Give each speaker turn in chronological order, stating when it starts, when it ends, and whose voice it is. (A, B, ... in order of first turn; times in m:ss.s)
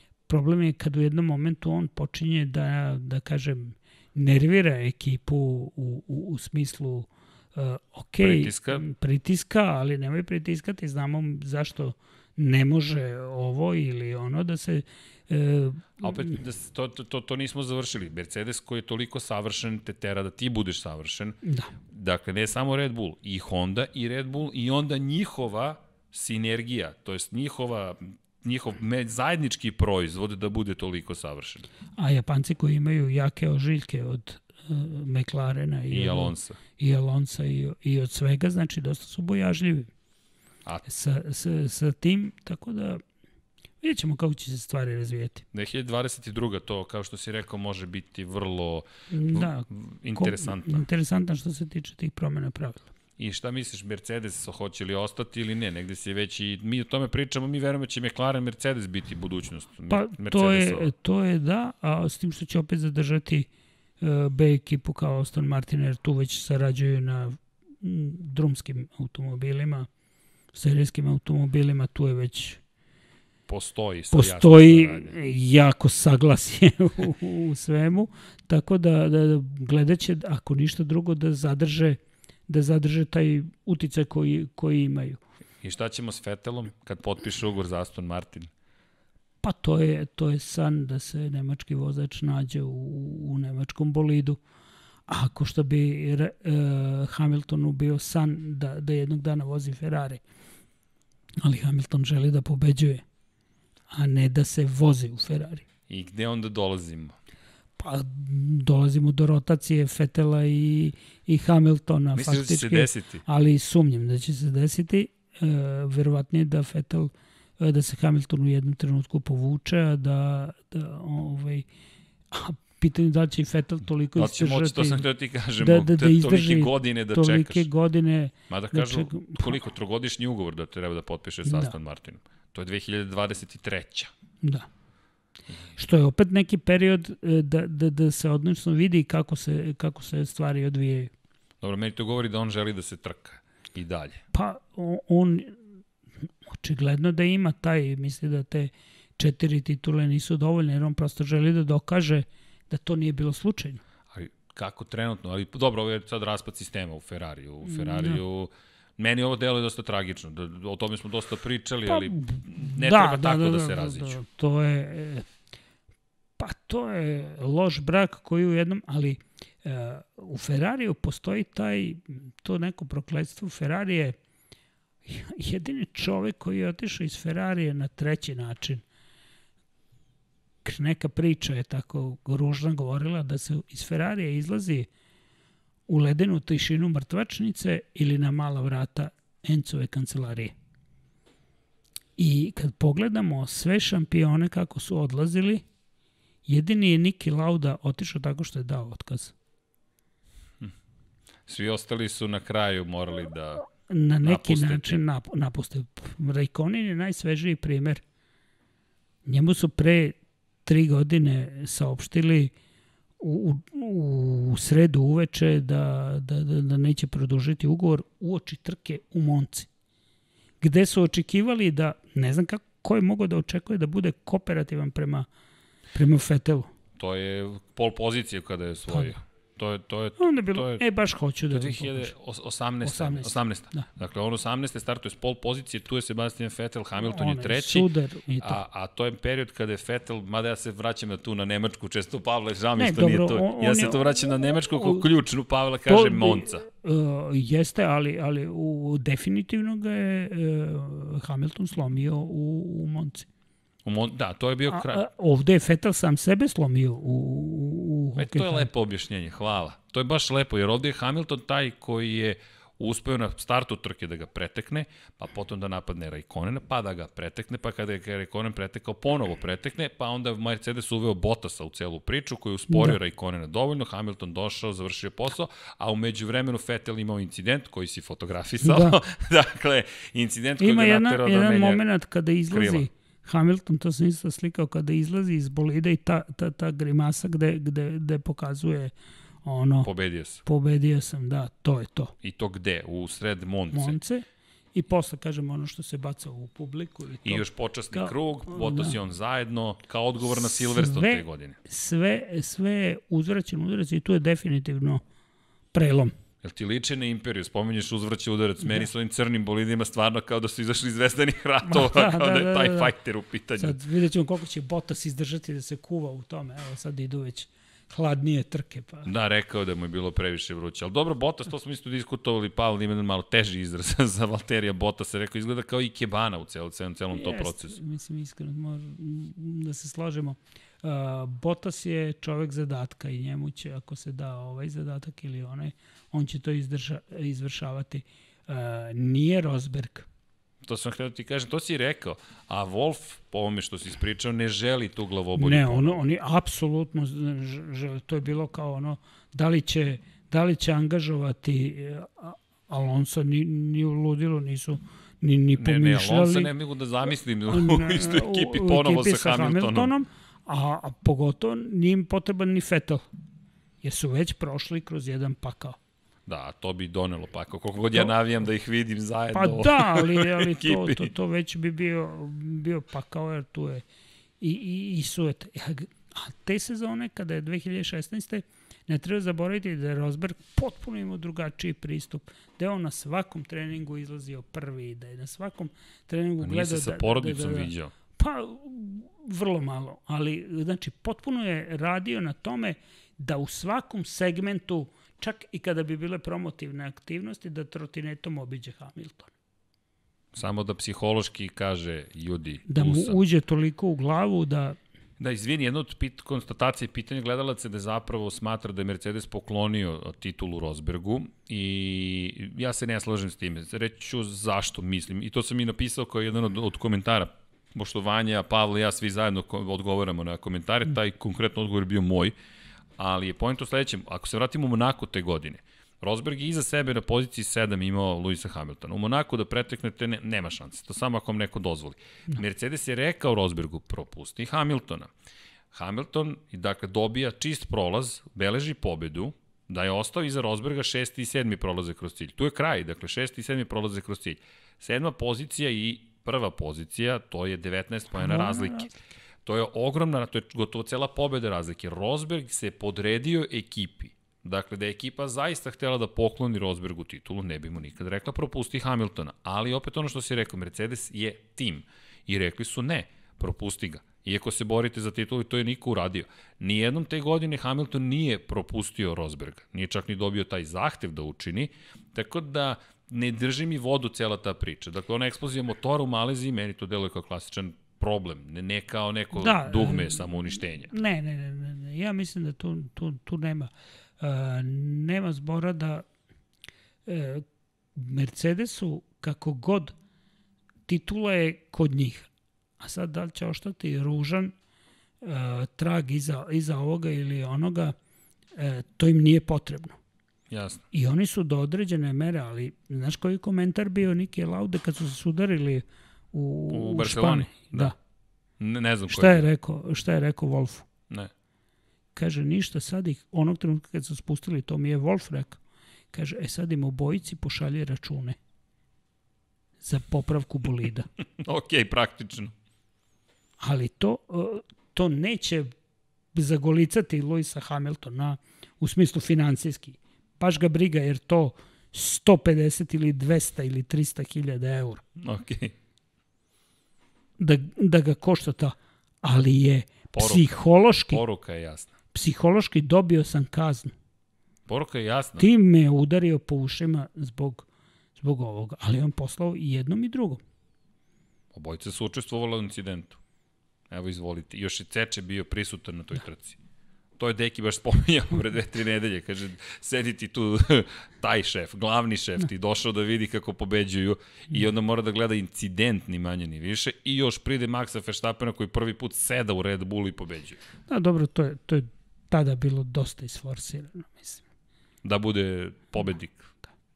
0:00.3-0:16.4 A
0:08.2-0:08.8 B
0:16.0-0:21.4 B
0:21.4-0:21.7 A
0:21.9-0:31.7 B
0:32.0-0:39.9 A
0:35.9-0:36.6 B
0:40.9-0:43.0 A
0:43.8-0:45.5 A
0:45.5-0:50.8 B
0:49.1-0:52.9 A
0:53.2-1:00.9 B
0:59.9-1:03.5 A
1:04.0-1:09.9 A
1:10.5-1:12.6 A
1:13.5-1:15.2 B
1:14.1-1:25.2 A
1:25.6-1:28.5 B
1:29.4-1:34.4 A
1:35.1-1:40.2 A
1:41.4-1:43.0 A
1:43.9-1:45.7 A
1:45.9-1:47.2 B
1:47.8-2:01.7 A
1:52.2-1:53.2 B
2:02.3-2:05.0 A
2:04.2-2:07.7 B
2:05.6-2:09.6 A
2:08.5-2:14.1 B
2:11.5-2:11.8 A
2:14.4-2:14.7 A
2:15.8-2:21.1 A
2:21.6-2:24.2 B
2:24.3-2:25.6 A
2:26.5-2:33.8 A
2:34.1-2:44.2 B
2:37.6-2:38.2 A
2:41.9-2:45.3 A
2:46.4-2:54.2 A
2:55.1-2:58.8 A
3:00.6-3:04.9 A
3:05.9-3:10.5 A
3:12.2-3:15.6 A
3:16.5-3:19.4 A
3:21.5-3:23.6 B
3:23.9-3:28.0 A
3:24.2-3:25.0 B
3:29.3-3:32.5 A
3:33.2-3:39.7 A
3:40.6-3:45.3 A
3:45.9-3:46.7 A
3:47.0-3:50.8 B
3:48.9-3:49.2 A
3:50.2-3:52.1 A
3:51.5-3:57.9 B
3:52.8-3:53.9 A
3:57.0-3:58.6 A
3:58.4-4:06.6 B
4:02.8-4:04.0 A
4:04.8-4:05.0 A
4:05.9-4:13.3 A
4:13.8-4:15.0 B
4:14.7-4:18.7 A
4:18.2-4:41.8 B
4:32.7-4:33.0 A
4:38.6-4:39.0 A
4:40.6-4:48.9 A
4:42.5-4:42.9 B
4:49.4-4:49.9 A
4:49.8-4:50.4 B
4:50.4-4:52.1 A
4:52.2-4:54.0 B
4:53.7-4:59.0 A
4:57.2-5:01.6 B
5:00.3-5:05.0 A
5:05.7-5:06.2 A
5:06.4-5:13.8 B
5:11.6-5:12.9 A
5:13.6-5:19.1 A
5:19.0-5:27.8 B
5:27.1-5:40.1 A
5:40.6-5:46.0 B
5:45.4-5:56.5 A
5:55.5-5:59.9 B
5:57.5-6:03.0 A
6:03.8-6:05.8 A
6:06.3-6:11.1 B
6:09.3-6:13.8 A
6:14.4-6:39.3 A
6:26.4-6:27.9 B
6:40.3-6:43.2 B
6:42.7-6:44.8 A
6:45.2-7:02.3 B
7:03.0-7:15.1 B
7:15.7-7:28.9 B
7:28.2-7:28.9 A
7:29.4-8:00.9 B
7:59.3-8:06.1 A
8:07.1-8:07.4 A
8:08.0-8:10.0 A
8:10.9-8:12.3 A
8:12.8-8:14.5 A
8:15.2-8:18.0 A
8:18.6-8:20.0 A
8:20.5-8:20.8 B
8:20.9-8:28.0 A
8:26.7-8:28.0 B
8:28.6-8:29.5 B
8:29.1-8:30.9 A
8:32.2-8:35.6 A
8:36.1-8:38.4 A
8:39.8-8:41.1 A
8:41.4-8:42.5 B
8:43.6-8:45.7 A
8:46.3-8:55.0 A
8:55.2-8:55.7 B
8:57.4-9:01.2 A
9:00.1-9:01.9 B
9:02.1-9:03.9 A
9:04.7-9:05.5 B
9:05.4-9:07.7 A
9:08.2-9:10.4 A
9:11.5-9:13.2 B
9:13.9-9:16.6 B
9:17.2-9:30.6 B
9:30.9-9:34.4 A
9:35.0-9:36.5 B